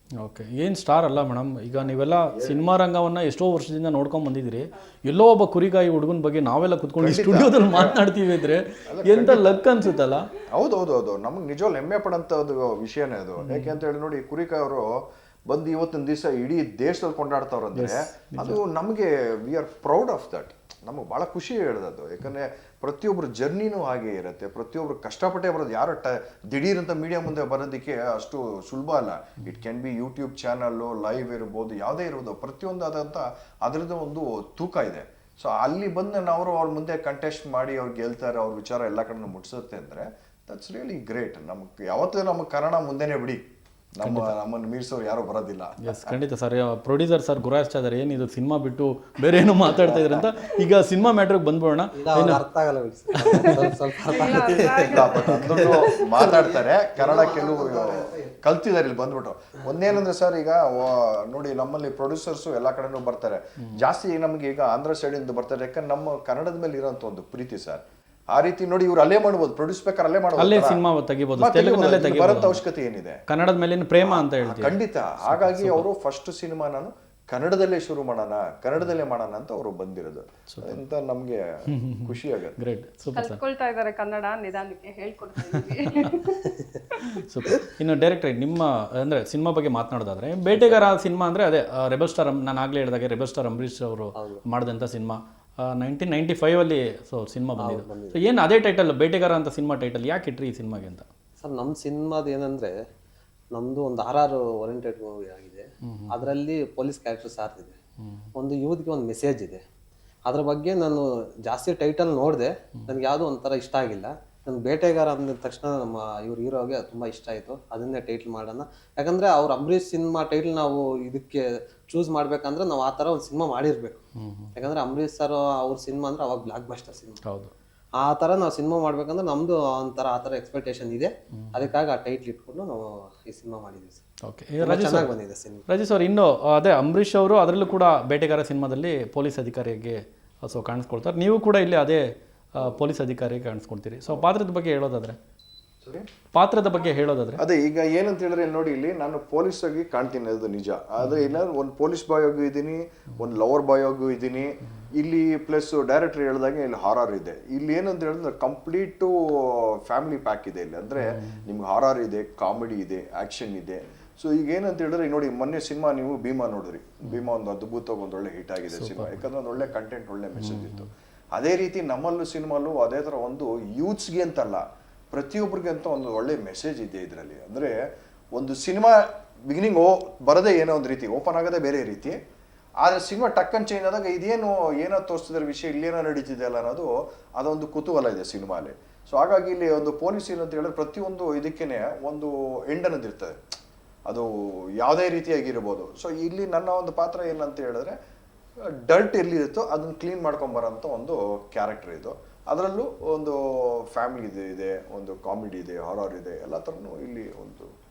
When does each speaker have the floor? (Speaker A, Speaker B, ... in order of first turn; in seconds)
Speaker A: 0.2-10.3, 13.4-13.7, 17.8-18.6, 44.0-44.3, 45.8-52.4, 70.4-72.6, 73.3-75.9, 80.5-80.8, 81.8-83.4, 85.6-86.2, 87.0-101.1, 105.8-106.1, 124.2-124.6, 127.2-127.5, 134.2-135.1, 135.7-142.0, 142.5-145.2, 146.3-147.4, 161.1-161.4, 168.7-169.2, 170.4-170.9
Speaker B: 2.2-2.6, 7.0-8.0, 8.9-9.7, 10.5-43.4, 44.0-46.2, 49.6-50.3, 54.9-70.8, 71.4-73.2, 74.0-82.6, 145.8-146.1, 147.4-177.8, 178.3-182.2, 182.8-193.4, 194.1-198.0, 198.6-207.7
Speaker C: 52.0-58.3, 94.2-94.4, 97.6-98.2, 101.4-102.8, 103.5-107.8, 108.3-109.6, 110.2-124.0, 124.5-127.2, 128.0-134.0, 134.6-135.7
Speaker D: 53.2-55.9, 83.2-86.6